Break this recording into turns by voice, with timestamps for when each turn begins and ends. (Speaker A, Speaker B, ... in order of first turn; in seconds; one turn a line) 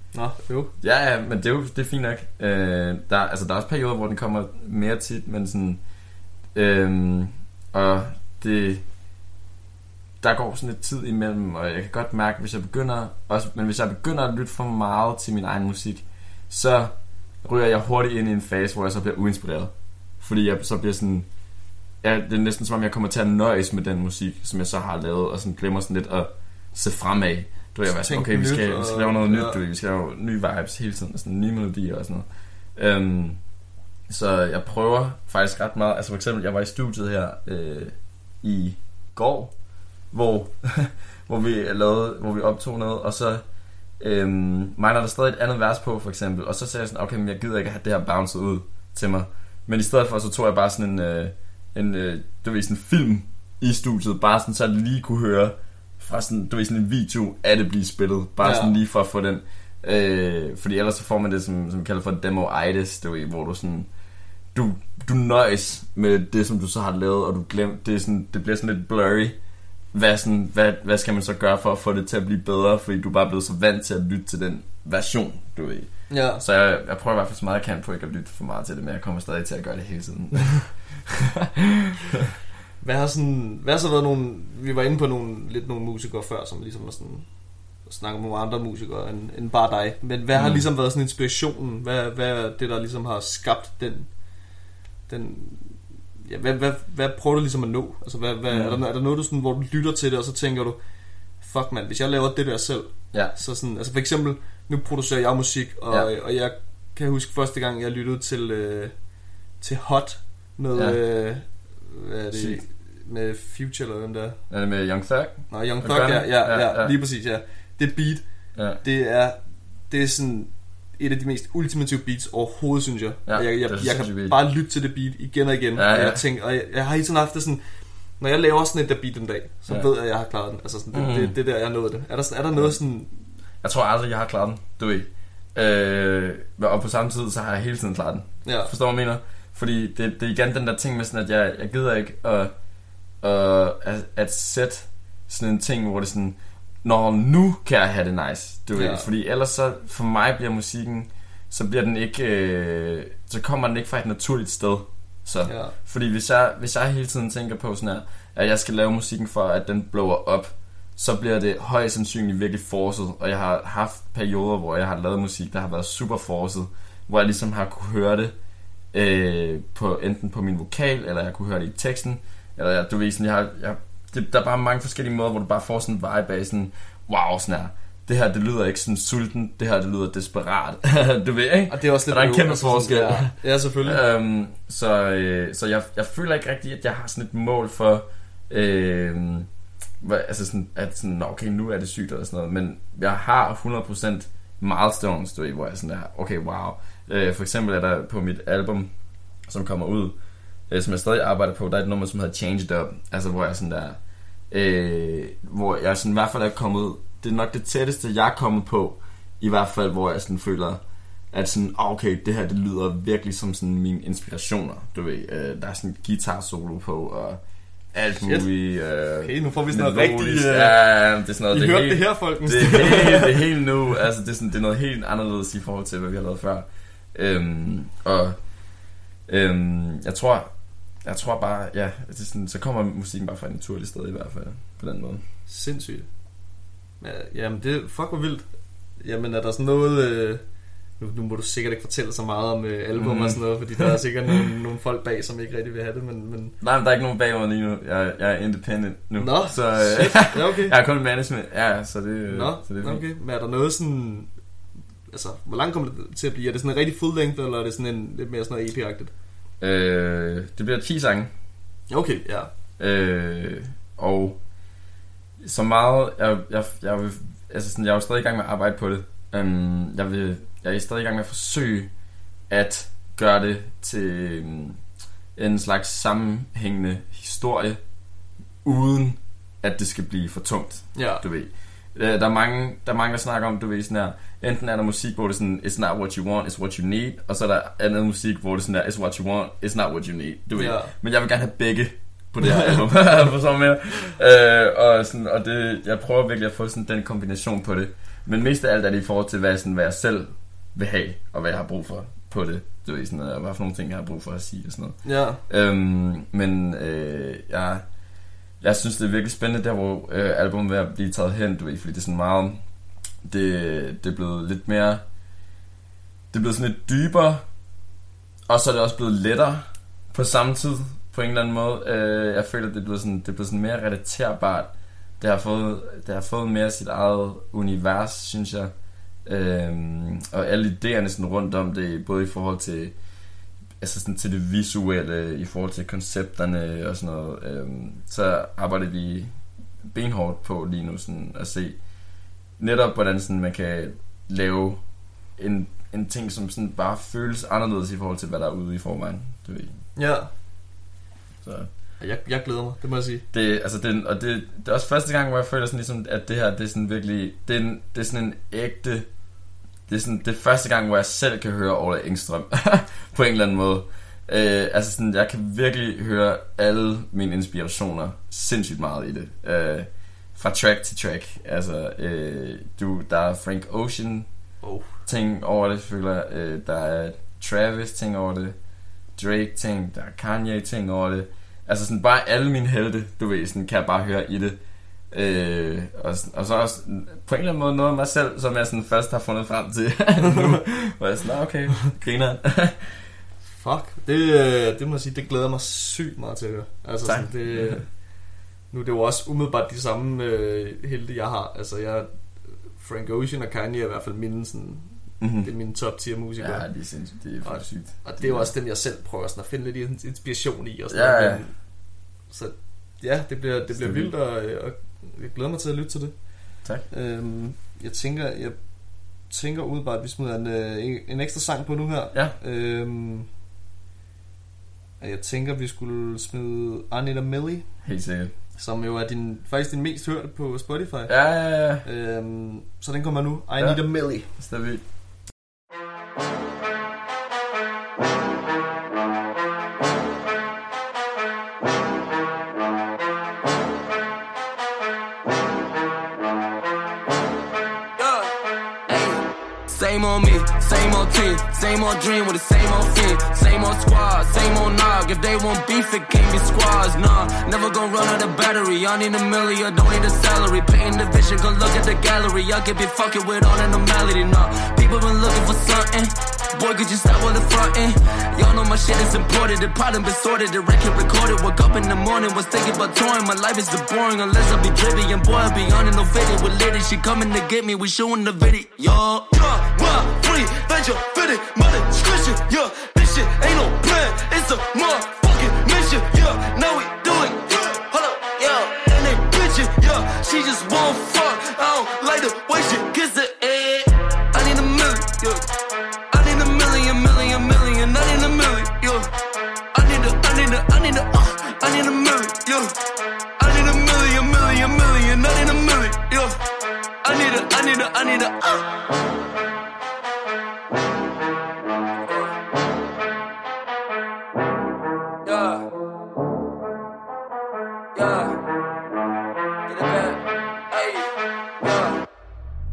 Speaker A: 0.1-0.7
Speaker B: 0.8-5.8
Speaker B: 6.5-8.8
Speaker B: 10.2-21.3
Speaker B: 22.0-32.2
Speaker A: 27.9-29.6
Speaker B: 32.8-33.4
Speaker B: 34.1-39.5
Speaker B: 40.1-43.4
Speaker B: 44.0-63.9
Speaker A: 58.4-58.7
Speaker B: 64.5-69.4
Speaker B: 69.9-81.9
Speaker A: 76.1-76.4
Speaker A: 82.8-87.3
Speaker A: 87.8-94.1
Speaker B: 90.3-90.7
Speaker A: 95.1-100.8
Speaker B: 98.5-98.8
Speaker A: 101.4-109.0
Speaker A: 109.6-114.4
Speaker B: 110.7-111.0
Speaker B: 112.3-112.6
Speaker B: 114.5-116.9
Speaker A: 115.5-119.4
Speaker B: 118.5-118.8
Speaker A: 119.9-127.6
Speaker B: 123.2-124.3
Speaker B: 125.8-126.2
Speaker A: 128.2-133.1
Speaker B: 130.9-131.3
Speaker B: 133.6-142.5
Speaker A: 138.4-138.7
Speaker B: 143.2-168.3
Speaker A: 148.7-149.1
Speaker A: 155.4-155.7
Speaker B: 168.9-189.5
Speaker A: 181.7-184.0
Speaker B: 190.0-198.9
Speaker B: 199.5-200.2
Speaker B: 200.7-204.0
Speaker B: 204.5-210.8
Speaker B: 211.3-217.4
Speaker B: 217.9-228.4
Speaker A: 218.2-218.5
Speaker A: 219.2-220.8
Speaker A: 221.5-223.4
Speaker B: 229.3-230.5
Speaker B: 231.0-235.2
Speaker A: 235.5-236.1
Speaker A: 237.0-240.4
Speaker A: 241.0-246.5
Speaker B: 242.9-243.9
Speaker B: 246.6-253.0
Speaker A: 249.2-250.7
Speaker A: 252.3-254.3
Speaker A: 255.1-259.1
Speaker B: 259.6-261.3
Speaker A: 261.9-262.5
Speaker B: 262.8-264.4
Speaker B: 265.4-271.9
Speaker B: 272.5-274.8
Speaker B: 275.4-277.8
Speaker B: 278.6-307.9
Speaker A: 280.9-281.2
Speaker A: 290.6-290.9
Speaker A: 292.4-292.8
Speaker A: 305.0-305.4
Speaker B: 308.6-312.6
Speaker B: 313.2-315.0
Speaker B: 316.3-317.4
Speaker B: 318.5-328.7
Speaker B: 329.2-332.9
Speaker B: 333.8-339.3
Speaker B: 339.9-341.8
Speaker B: 342.6-344.8
Speaker B: 345.4-349.7
Speaker A: 349.9-350.3
Speaker B: 351.4-351.7
Speaker A: 352.0-353.2
Speaker B: 353.3-359.1
Speaker B: 359.9-374.3
Speaker A: 374.6-374.9
Speaker B: 375.0-378.6
Speaker B: 379.2-384.6
Speaker B: 385.1-393.1
Speaker A: 393.5-398.0
Speaker B: 397.0-397.8
Speaker A: 398.7-402.1
Speaker A: 402.7-406.6
Speaker B: 405.2-405.5
Speaker B: 406.4-408.5
Speaker A: 407.4-411.6
Speaker B: 410.9-411.4
Speaker A: 412.3-416.2
Speaker B: 413.7-414.1
Speaker A: 416.9-418.6
Speaker A: 419.3-423.3
Speaker A: 425.0-427.7
Speaker B: 427.8-428.3
Speaker A: 428.5-431.1
Speaker B: 431.1-431.8
Speaker A: 431.8-434.3
Speaker B: 433.6-434.8
Speaker C: 448.0-448.3
Speaker C: 448.9-495.4
Speaker C: 496.1-499.1
Speaker C: 499.7-502.7
Speaker C: 503.4-506.4
Speaker C: 507.0-508.8
Speaker C: 515.2-515.7
Speaker C: 517.9-518.4
Speaker C: 519.7-522.0